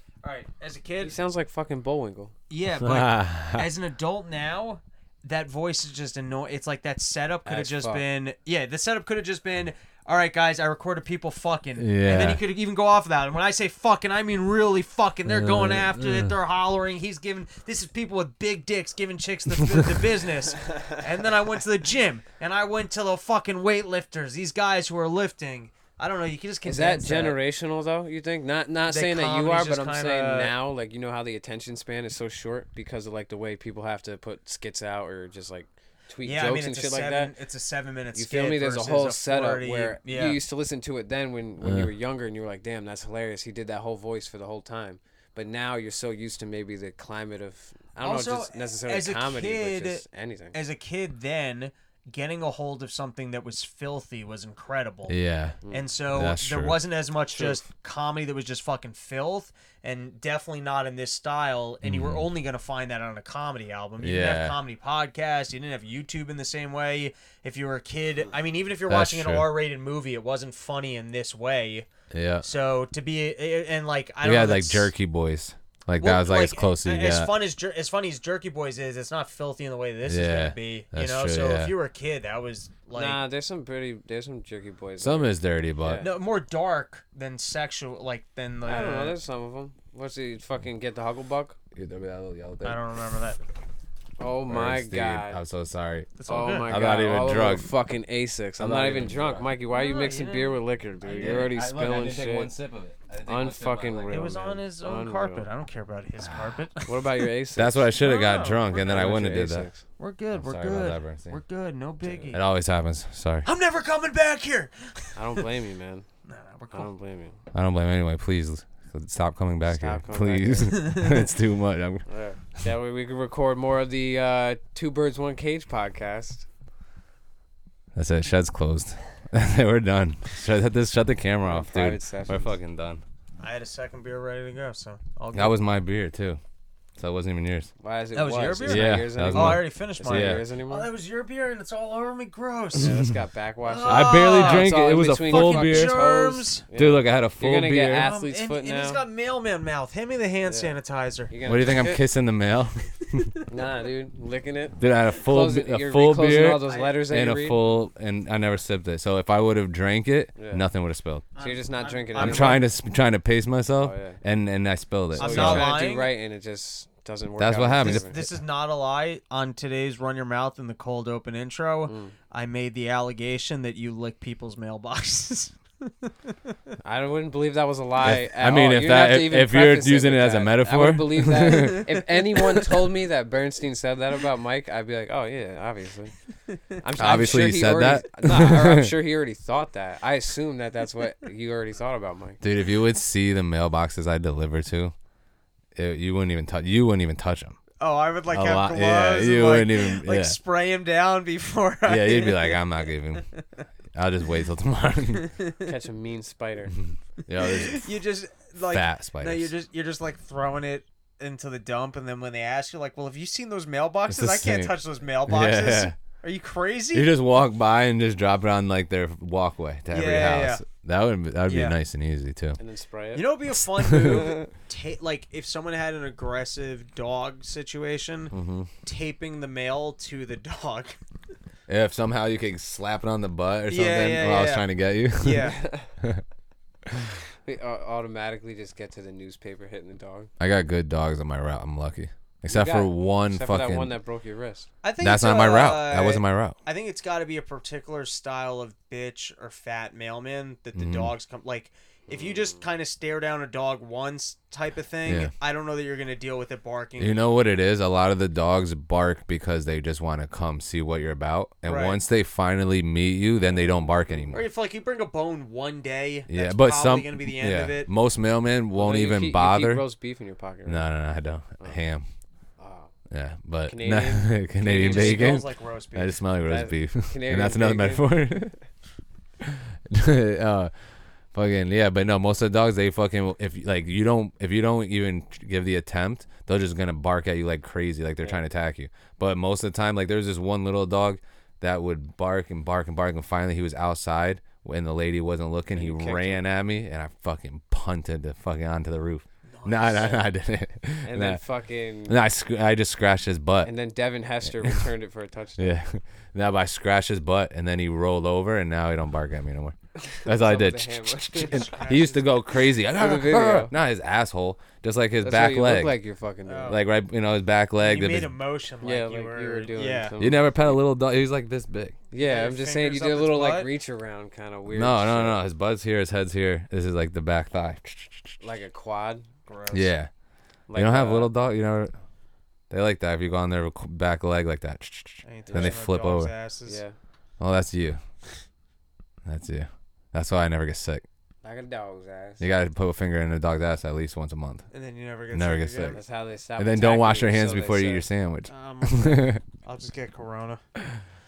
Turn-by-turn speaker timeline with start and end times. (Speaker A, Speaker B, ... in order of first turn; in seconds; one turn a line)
Speaker A: 0.2-1.2
Speaker B: 1.0-2.3
Speaker A: 2.5-27.4
Speaker C: 2.8-3.6
Speaker B: 7.4-8.0
Speaker C: 11.8-12.4
Speaker C: 15.3-16.3
Speaker B: 26.6-37.3
Speaker A: 28.9-30.5
Speaker A: 36.2-40.4
Speaker B: 38.1-50.6
Speaker C: 41.6-41.9
Speaker A: 48.0-55.2
Speaker C: 55.1-55.6
Speaker A: 55.7-71.9
Speaker C: 56.1-56.8
Speaker B: 57.3-57.6
Speaker C: 61.8-62.3
Speaker C: 64.0-64.6
Speaker C: 68.9-69.5
Speaker C: 72.1-72.5
Speaker A: 72.4-74.9
Speaker C: 74.2-77.3
Speaker A: 76.0-83.2
Speaker C: 80.0-81.8
Speaker B: 82.9-86.1
Speaker C: 85.0-86.1
Speaker A: 86.0-89.2
Speaker B: 88.6-91.5
Speaker C: 91.7-92.8
Speaker A: 92.6-93.4
Speaker B: 94.2-95.4
Speaker C: 94.5-97.7
Speaker A: 96.2-96.8
Speaker B: 96.3-102.5
Speaker C: 98.6-99.5
Speaker A: 99.7-101.5
Speaker C: 101.1-104.4
Speaker B: 103.2-105.5
Speaker A: 104.1-106.9
Speaker B: 106.8-107.9
Speaker C: 107.5-109.7
Speaker A: 108.0-108.9
Speaker B: 108.8-109.8
Speaker A: 110.0-112.4
Speaker C: 110.3-111.4
Speaker B: 112.0-112.3
Speaker C: 112.3-113.5
Speaker A: 113.4-115.2
Speaker B: 115.2-116.1
Speaker A: 116.3-116.9
Speaker B: 116.7-117.4
Speaker C: 117.5-122.0
Speaker B: 119.7-120.8
Speaker A: 120.7-121.2
Speaker B: 122.1-126.5
Speaker C: 127.9-133.0
Speaker B: 131.4-132.6
Speaker A: 133.4-135.6
Speaker C: 135.3-136.4
Speaker C: 137.0-137.7
Speaker B: 137.8-140.9
Speaker A: 138.1-143.0
Speaker C: 138.6-140.4
Speaker B: 142.7-149.0
Speaker A: 143.6-146.7
Speaker C: 143.8-146.1
Speaker C: 146.7-148.1
Speaker A: 148.0-151.3
Speaker B: 150.4-150.8
Speaker B: 151.3-152.0
Speaker C: 151.4-153.3
Speaker B: 153.5-157.6
Speaker C: 154.8-161.3
Speaker A: 156.7-157.0
Speaker B: 160.3-160.6
Speaker A: 161.3-162.6
Speaker B: 161.4-162.6
Speaker C: 162.1-165.7
Speaker B: 163.8-164.2
Speaker B: 165.1-168.2
Speaker A: 165.2-166.1
Speaker C: 167.4-168.3
Speaker A: 167.8-176.1
Speaker B: 171.9-172.1
Speaker B: 176.8-186.1
Speaker C: 178.0-181.9
Speaker B: 186.7-192.4
Speaker C: 186.9-188.9
Speaker C: 192.4-194.9
Speaker C: 195.7-197.6
Speaker A: 197.8-203.2
Speaker C: 198.3-200.4
Speaker C: 201.8-203.2
Speaker C: 203.9-205.3
Speaker A: 205.2-205.7
Speaker B: 205.6-206.7
Speaker C: 206.8-207.9
Speaker A: 207.5-217.1
Speaker C: 208.6-209.5
Speaker C: 214.1-215.9
Speaker C: 216.9-222.6
Speaker A: 219.9-220.6
Speaker A: 221.5-221.8
Speaker B: 222.6-223.3
Speaker A: 223.1-228.3
Speaker C: 223.8-224.3
Speaker B: 223.9-224.5
Speaker C: 228.3-228.7
Speaker A: 228.8-230.9
Speaker C: 231.7-236.2
Speaker A: 233.7-235.6
Speaker B: 235.4-235.9
Speaker C: 236.9-237.1
Speaker B: 237.4-240.3
Speaker C: 240.4-244.0
Speaker B: 242.5-244.7
Speaker A: 244.8-257.2
Speaker C: 245.0-246.6
Speaker C: 250.7-251.1
Speaker B: 252.1-252.6
Speaker C: 255.1-255.3
Speaker C: 257.0-264.4
Speaker A: 261.6-262.0
Speaker B: 263.5-264.3
Speaker A: 264.3-267.9
Speaker C: 266.3-269.9
Speaker B: 268.7-270.9
Speaker C: 270.6-272.1
Speaker B: 272.6-272.9
Speaker C: 273.1-278.6
Speaker B: 273.6-275.3
Speaker A: 274.6-276.2
Speaker B: 276.4-278.5
Speaker C: 279.4-280.7
Speaker C: 281.3-301.4
Speaker B: 295.7-296.4
Speaker A: 299.5-300.2
Speaker B: 301.0-302.2
Speaker C: 302.0-303.7
Speaker B: 303.6-305.8
Speaker C: 304.6-304.8
Speaker C: 305.6-316.0
Speaker B: 310.0-311.9
Speaker A: 311.4-312.3
Speaker B: 312.9-313.7
Speaker B: 315.2-316.8
Speaker A: 316.4-316.9
Speaker C: 316.7-318.3
Speaker A: 317.8-320.1
Speaker B: 318.8-320.5
Speaker C: 320.2-322.0
Speaker B: 322.1-325.4
Speaker A: 322.1-323.7
Speaker C: 324.7-328.4
Speaker B: 328.4-329.3
Speaker A: 329.4-329.9
Speaker C: 329.7-330.1
Speaker B: 330.7-331.3
Speaker C: 330.7-331.9
Speaker C: 332.7-336.3
Speaker A: 335.2-336.8
Speaker B: 335.4-335.8
Speaker B: 336.7-336.9
Speaker C: 337.4-338.0
Speaker C: 339.2-341.0
Speaker B: 341.4-342.4
Speaker C: 342.4-344.6
Speaker A: 344.7-346.0
Speaker C: 345.3-346.0
Speaker B: 345.9-348.1
Speaker C: 346.6-349.4
Speaker A: 348.5-350.6